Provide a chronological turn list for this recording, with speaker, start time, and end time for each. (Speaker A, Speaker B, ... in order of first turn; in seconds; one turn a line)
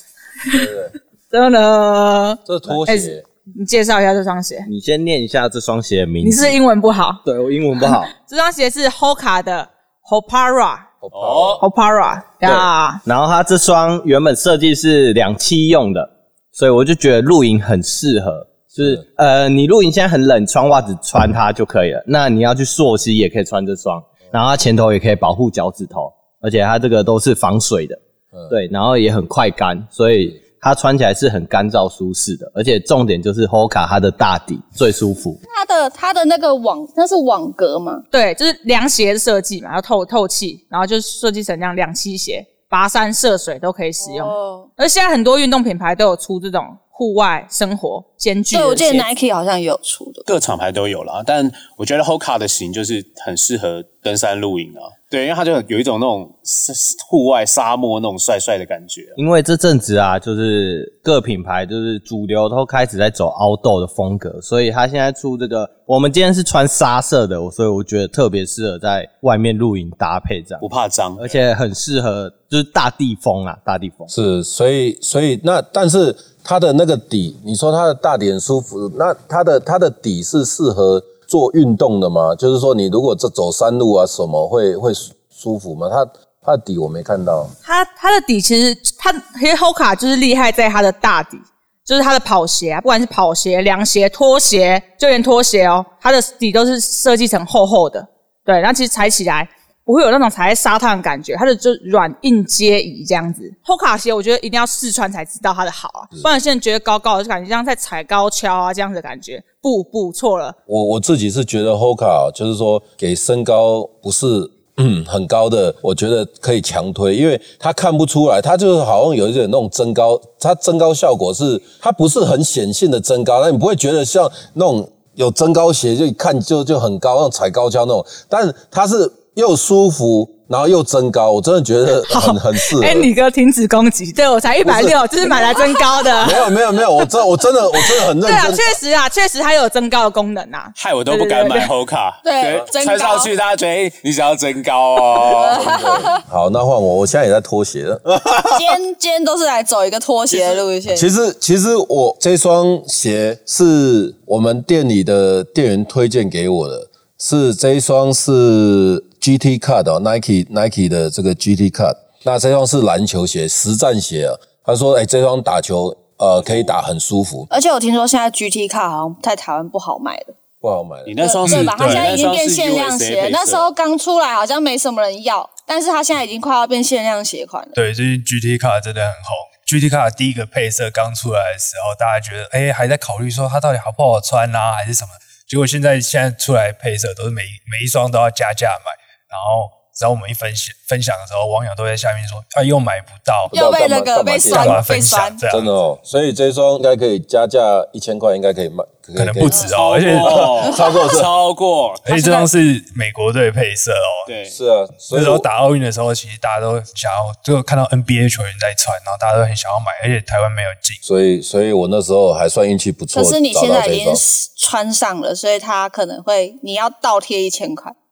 Speaker A: 0.5-0.9
Speaker B: 1.3-4.7
Speaker A: 2.5-3.2
Speaker C: 4.7-6.6
Speaker B: 6.2-7.2
Speaker C: 7.2-8.1
Speaker B: 7.8-10.9
Speaker A: 11.0-11.6
Speaker D: 11.1-11.6
Speaker B: 11.6-13.0
Speaker C: 12.4-35.4
Speaker A: 18.7-19.0
Speaker E: 35.5-38.0
Speaker B: 38.1-49.1
Speaker E: 44.0-44.7
Speaker E: 48.5-50.3
Speaker D: 50.3-59.2
Speaker C: 59.2-70.7
Speaker D: 70.6-71.4
Speaker C: 71.2-74.1
Speaker A: 74.1-87.5
Speaker B: 87.6-110.6
Speaker A: 110.7-133.1
Speaker B: 132.1-136.4
Speaker A: 134.6-135.0
Speaker A: 136.2-138.8
Speaker B: 138.2-141.7
Speaker D: 140.8-145.6
Speaker E: 142.2-143.3
Speaker E: 145.2-146.2
Speaker A: 145.5-148.8
Speaker E: 148.5-151.1
Speaker A: 150.9-167.5
Speaker E: 167.5-170.3
Speaker A: 170.6-171.2
Speaker D: 171.1-173.7
Speaker E: 171.2-177.8
Speaker F: 171.5-172.2
Speaker F: 177.8-193.5
Speaker A: 193.5-194.9
Speaker E: 193.5-195.4
Speaker F: 194.5-195.7
Speaker A: 195.5-201.3
Speaker F: 199.2-200.5
Speaker E: 199.5-199.8
Speaker D: 199.8-202.1
Speaker E: 200.7-201.1
Speaker F: 202.1-204.3
Speaker D: 204.3-204.6
Speaker A: 204.5-205.5
Speaker F: 205.1-211.0
Speaker A: 211.1-214.2
Speaker E: 213.1-217.9